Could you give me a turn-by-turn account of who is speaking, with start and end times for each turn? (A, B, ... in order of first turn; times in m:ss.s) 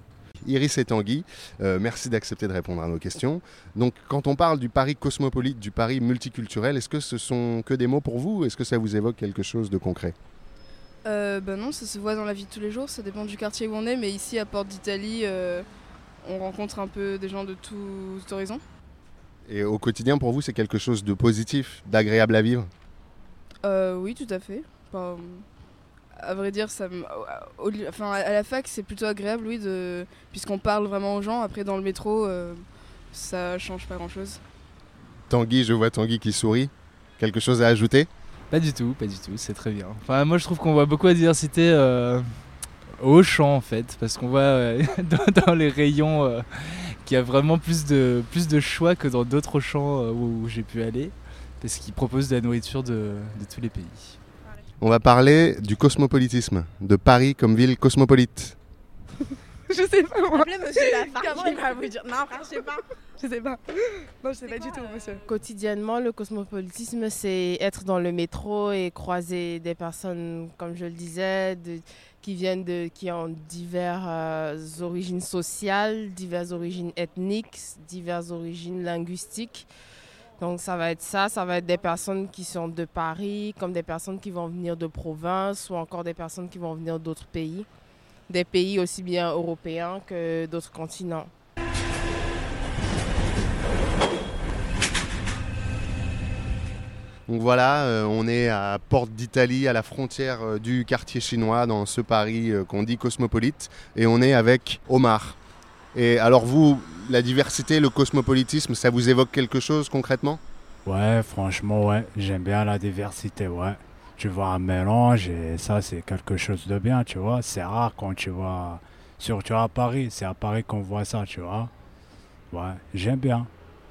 0:00.4-0:10.2 A
0:11.0-0:15.7 B
0:16.2-0:18.6 B
0:19.4-0:22.7 A
0:23.6-0:25.5 B
0:26.2-0:34.4 B
0:35.3-0:38.1 A
0:38.5-0:54.2 C
0:54.8-0:58.6 A
0:59.7-1:02.4 B
1:00.8-1:02.0 D
1:04.2-1:05.2 B
1:05.2-1:19.7 D
1:20.4-1:27.7 D
1:28.3-1:31.3 D
1:37.3-1:45.4 A
1:45.9-1:50.4 A
1:50.8-2:01.7 E
2:02.5-2:03.5 E